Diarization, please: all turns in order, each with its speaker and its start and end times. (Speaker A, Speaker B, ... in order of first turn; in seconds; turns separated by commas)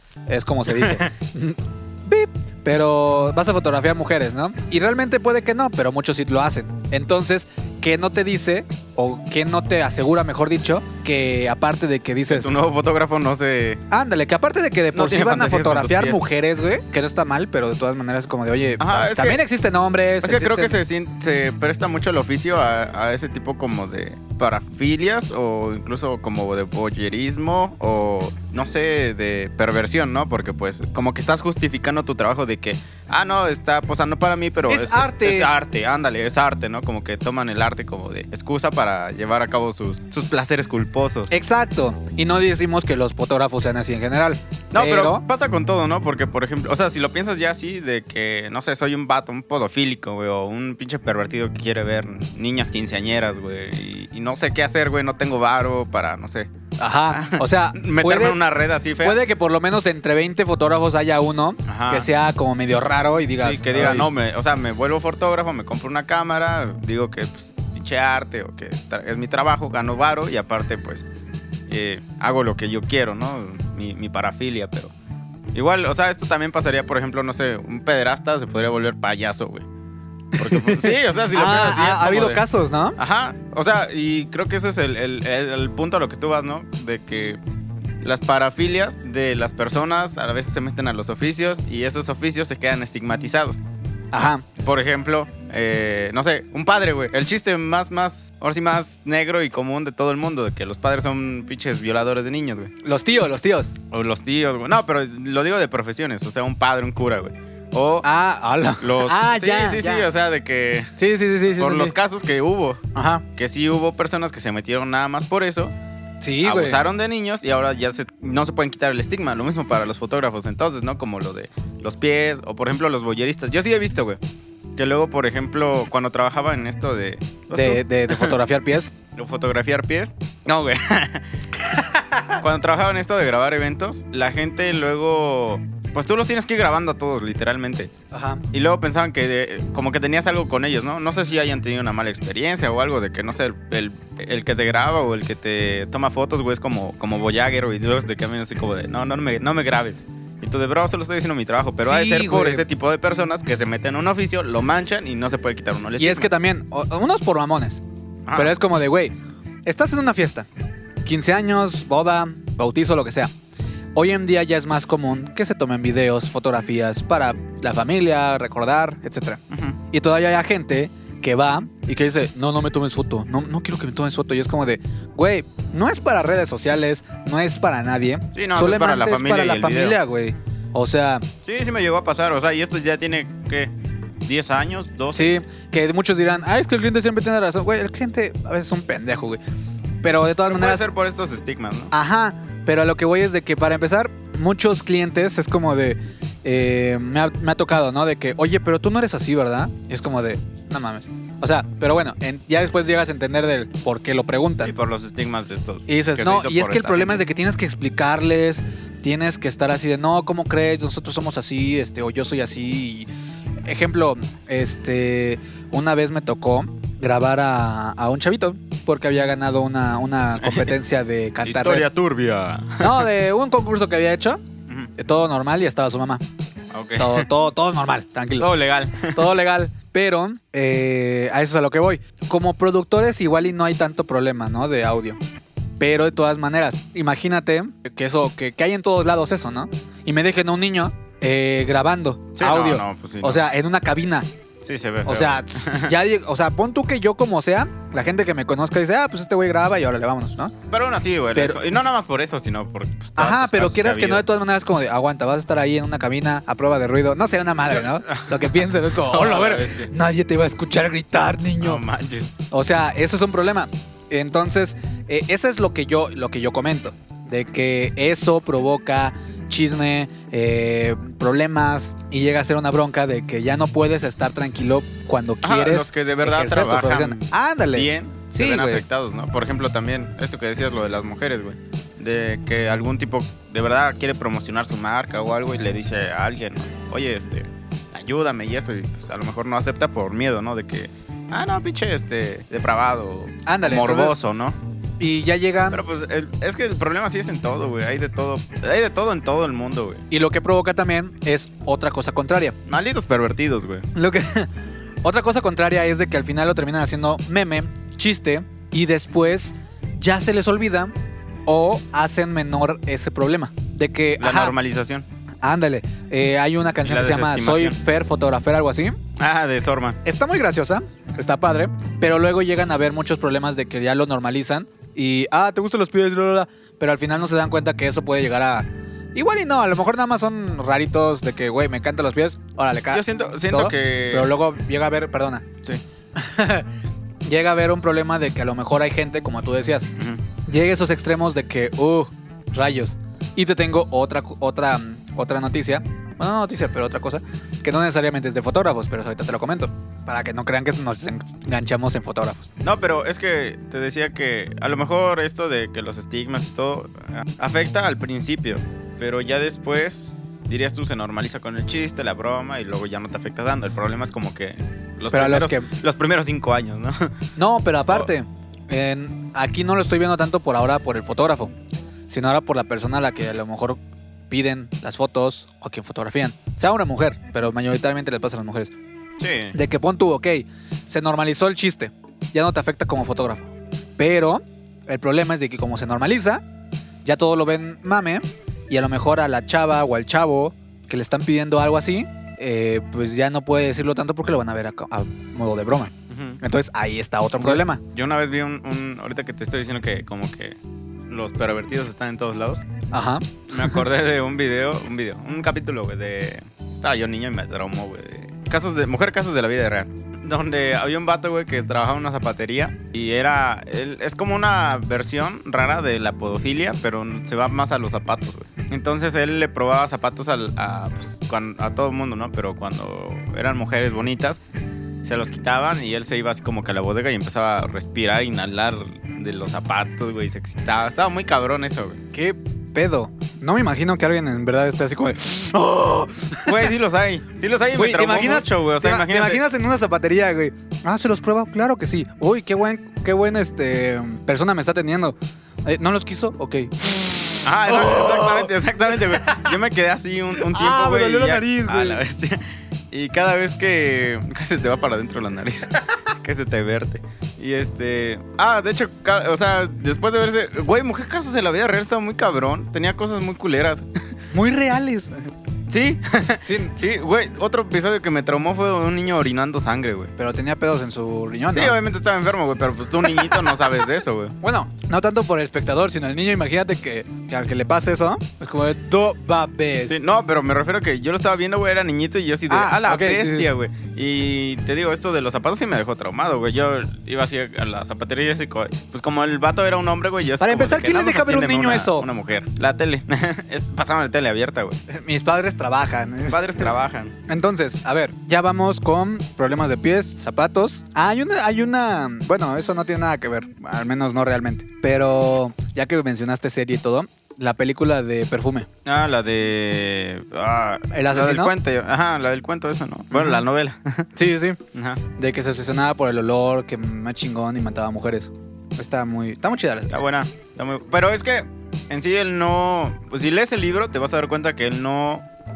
Speaker A: 0.3-12.5, Speaker B: 0.7-1.1, Speaker B: 12.3-13.8, Speaker A: 13.9-20.8, Speaker B: 14.9-16.2, Speaker B: 18.8-19.4, Speaker B: 20.2-41.3, Speaker A: 34.7-35.5, Speaker A: 41.3-45.2, Speaker B: 44.7-56.5, Speaker A: 56.8-58.4, Speaker B: 57.1-59.2, Speaker A: 59.0-64.1, Speaker B: 61.6-62.1, Speaker B: 63.4-71.0, Speaker B: 71.7-74.9, Speaker B: 75.5-79.7, Speaker B: 80.3-82.4, Speaker A: 80.3-83.0, Speaker B: 83.0-87.4, Speaker B: 88.0-93.6, Speaker A: 94.1-94.4, Speaker B: 94.5-102.7, Speaker A: 102.8-103.7, Speaker B: 103.9-108.0, Speaker A: 108.0-110.1, Speaker B: 108.8-110.9, Speaker A: 111.0-112.0, Speaker B: 111.5-112.8, Speaker A: 112.9-113.2, Speaker B: 113.3-115.7, Speaker A: 116.2-116.8, Speaker B: 116.4-124.2, Speaker B: 124.8-128.3, Speaker A: 127.5-128.9, Speaker B: 129.1-131.2, Speaker A: 131.7-132.4, Speaker B: 132.3-137.9, Speaker A: 138.1-138.4, Speaker B: 138.5-156.3, Speaker A: 151.8-152.7, Speaker A: 156.0-157.8, Speaker B: 158.2-158.5, Speaker A: 158.3-159.1, Speaker A: 159.7-160.5, Speaker A: 161.0-163.3, Speaker A: 163.9-181.2, Speaker B: 169.5-169.8, Speaker B: 178.3-180.0, Speaker B: 181.4-183.7, Speaker B: 184.2-185.4, Speaker A: 185.1-189.4, Speaker A: 190.0-190.9, Speaker B: 190.5-191.9, Speaker A: 191.9-204.7, Speaker B: 204.6-207.2, Speaker A: 205.9-213.1, Speaker A: 213.7-221.8, Speaker B: 220.4-220.7, Speaker B: 221.4-223.1, Speaker A: 222.8-224.4, Speaker A: 224.9-226.2, Speaker B: 226.7-227.3, Speaker A: 227.0-228.5, Speaker B: 228.4-229.2, Speaker A: 229.1-235.2, Speaker A: 235.8-244.3, Speaker B: 242.3-243.5, Speaker B: 244.6-245.9, Speaker A: 245.0-250.5, Speaker B: 250.7-254.3, Speaker A: 251.3-251.6, Speaker A: 253.2-261.8, Speaker B: 257.7-259.9, Speaker B: 261.6-262.3, Speaker A: 262.5-278.8, Speaker B: 275.4-294.6, Speaker A: 293.4-294.1, Speaker A: 295.0-295.8, Speaker B: 295.7-300.0, Speaker A: 300.1-302.6, Speaker B: 302.6-303.9, Speaker A: 303.9-304.5, Speaker A: 305.0-310.9, Speaker A: 311.4-314.5, Speaker B: 314.2-315.1, Speaker A: 315.4-319.0, Speaker B: 316.8-317.8, Speaker B: 319.1-320.0, Speaker A: 320.0-335.4, Speaker B: 332.9-334.3, Speaker A: 336.1-336.7, Speaker A: 337.2-339.9, Speaker B: 339.9-340.2, Speaker A: 340.4-352.5, Speaker B: 352.6-367.1, Speaker A: 365.1-365.7, Speaker A: 367.4-371.5, Speaker A: 372.1-378.7, Speaker B: 379.2-379.6, Speaker A: 379.5-386.4, Speaker A: 387.0-397.8, Speaker B: 396.1-396.4, Speaker B: 397.4-400.6, Speaker B: 401.1-402.6, Speaker A: 402.9-403.8, Speaker B: 403.5-424.4, Speaker B: 425.0-432.0, Speaker A: 432.1-436.7, Speaker B: 436.4-439.4, Speaker A: 437.7-449.5, Speaker B: 447.4-463.9, Speaker A: 450.4-452.0, Speaker A: 464.3-465.1, Speaker B: 465.7-470.1, Speaker A: 466.4-466.8, Speaker A: 470.2-471.8, Speaker B: 471.5-474.4, Speaker A: 473.0-473.7, Speaker A: 474.4-479.9, Speaker B: 479.8-494.8, Speaker A: 482.5-483.5, Speaker A: 490.4-492.1, Speaker A: 494.9-496.7, Speaker B: 496.3-497.1, Speaker A: 497.3-508.7, Speaker B: 508.8-514.1, Speaker A: 510.9-511.5, Speaker A: 513.1-513.4, Speaker A: 514.1-514.6, Speaker B: 514.7-515.0, Speaker A: 515.2-519.9, Speaker B: 519.9-525.2